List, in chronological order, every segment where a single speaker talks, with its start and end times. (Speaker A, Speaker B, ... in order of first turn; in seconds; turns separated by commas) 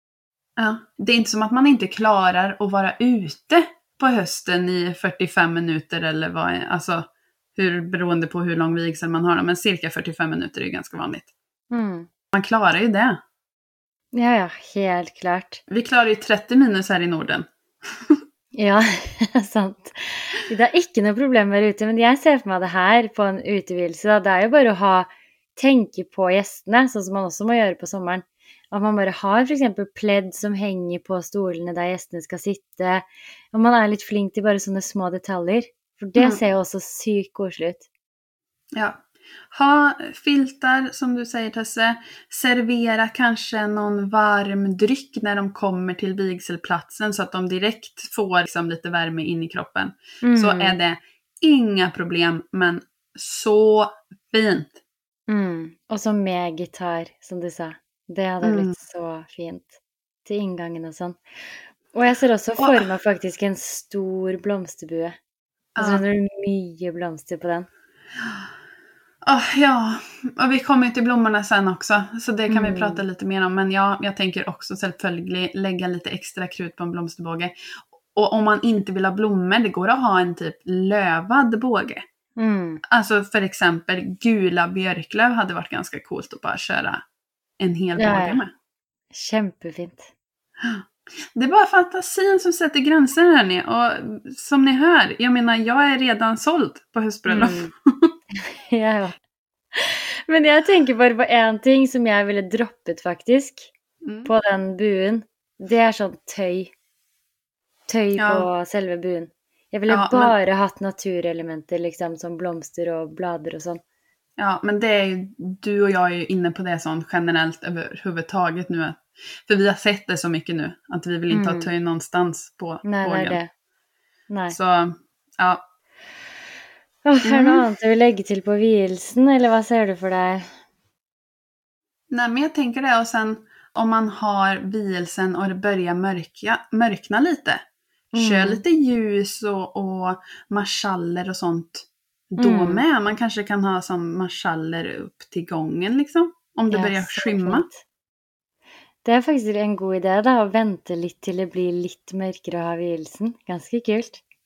Speaker A: 0.6-11.3, Speaker B: 11.7-12.1, Speaker A: 12.3-13.2, Speaker B: 14.1-15.6, Speaker A: 15.7-18.2, Speaker B: 18.5-37.9, Speaker A: 36.1-36.4, Speaker A: 38.7-54.8, Speaker B: 50.2-50.8, Speaker B: 55.3-61.2, Speaker A: 58.4-58.7, Speaker B: 61.9-65.2, Speaker A: 62.6-62.9, Speaker A: 65.8-66.0, Speaker B: 65.8-67.7, Speaker A: 69.2-82.0, Speaker B: 72.5-73.0, Speaker B: 82.4-82.8, Speaker A: 82.9-87.0, Speaker A: 87.6-88.5, Speaker B: 88.0-88.4, Speaker B: 89.1-90.1, Speaker A: 90.6-98.1, Speaker B: 97.3-97.7, Speaker B: 98.3-99.2, Speaker B: 99.7-103.7, Speaker A: 104.0-104.3, Speaker B: 104.2-106.7, Speaker B: 107.9-113.8, Speaker A: 108.2-108.5, Speaker A: 109.9-110.3, Speaker A: 114.4-123.4, Speaker B: 121.3-121.7, Speaker B: 122.8-123.5, Speaker B: 124.3-124.5, Speaker A: 124.5-125.6, Speaker B: 127.0-130.5, Speaker A: 127.2-127.6, Speaker A: 132.1-137.6, Speaker B: 138.1-138.6, Speaker A: 138.1-147.7, Speaker B: 142.4-142.8, Speaker B: 146.7-147.8, Speaker B: 149.0-154.2